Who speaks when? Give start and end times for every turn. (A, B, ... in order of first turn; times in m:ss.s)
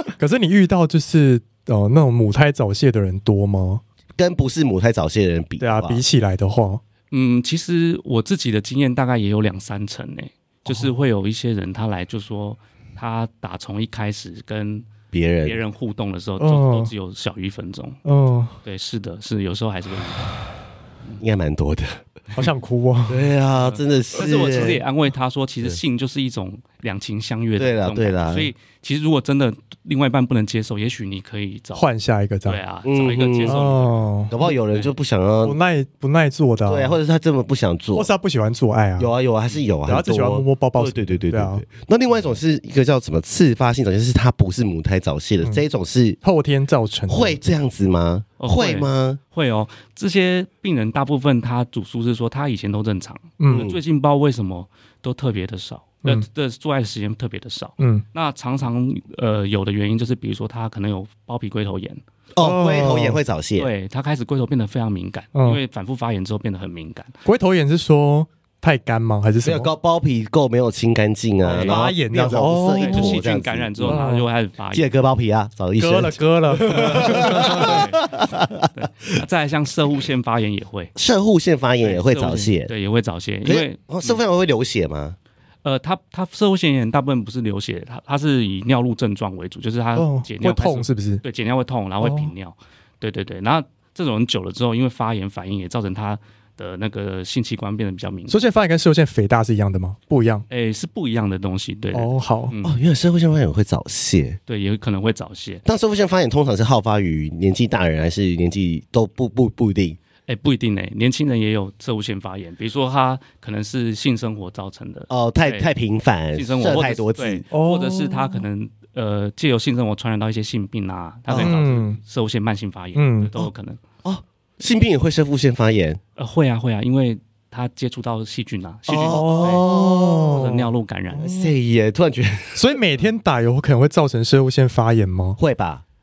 0:00.2-0:03.8 A
0:04.2-0:06.0 B
0:05.6-0:06.8 A
0:07.1-0:14.9 C
0:10.6-0:10.9 A
0:15.1-0:15.6 B
0:15.4-0:18.0 C
0:16.4-0:16.9 A
0:18.0-0:18.5 A
0:18.6-0:20.4 C
0:21.2-0:22.0 B
0:22.3-0:23.3 A
0:23.1-0:24.8 B
0:23.6-0:31.8 C
0:27.6-0:28.5 B
0:31.7-0:32.6 A
0:32.4-0:34.0 C
0:32.8-0:33.7 B
0:33.5-0:34.3 A
0:34.3-0:35.6 B
0:35.4-0:37.0 A
0:36.7-0:38.1 B
0:37.9-0:39.1 A
0:39.0-0:46.2 B
0:39.8-0:41.6 A
0:46.2-0:47.4 A
0:47.1-0:49.2 B
0:48.4-1:02.0 C
0:53.4-0:53.7 A
0:53.5-0:53.8 B
0:57.8-0:58.0 A
1:02.3-1:03.7 B
1:02.4-1:03.2 A
1:03.6-1:07.1 C
1:07.2-1:09.7 A
1:09.4-1:14.0 B
1:11.4-1:11.8 C
1:11.6-1:13.2 A
1:12.8-1:14.9 C
1:13.8-1:14.2 A
1:14.7-1:18.7 B
1:15.8-1:17.7 A
1:17.3-1:18.1 C
1:18.7-1:20.9 C
1:20.9-1:22.7 B
1:21.8-1:24.2 C
1:23.4-1:25.2 B
1:25.6-1:38.4 C
1:30.0-1:31.2 A
1:32.0-1:32.3 A
1:38.3-1:40.4 A
1:40.5-1:42.8 C
1:41.9-1:42.5 A
1:42.6-1:44.4 B
1:44.5-1:45.6 C
1:45.6-1:50.0 B
1:50.3-1:55.7 C
1:55.1-1:57.4 B
1:56.3-2:03.8 C
1:57.5-1:58.4 A
2:01.3-2:01.6 B
2:01.3-2:02.0 A
2:02.9-2:03.3 A
2:04.0-2:06.0 B
2:06.2-2:09.7 C
2:08.9-2:10.4 B
2:09.1-2:11.5 A
2:10.2-2:11.3 C
2:11.2-2:12.6 B
2:12.5-2:15.4 A
2:15.4-2:15.8 B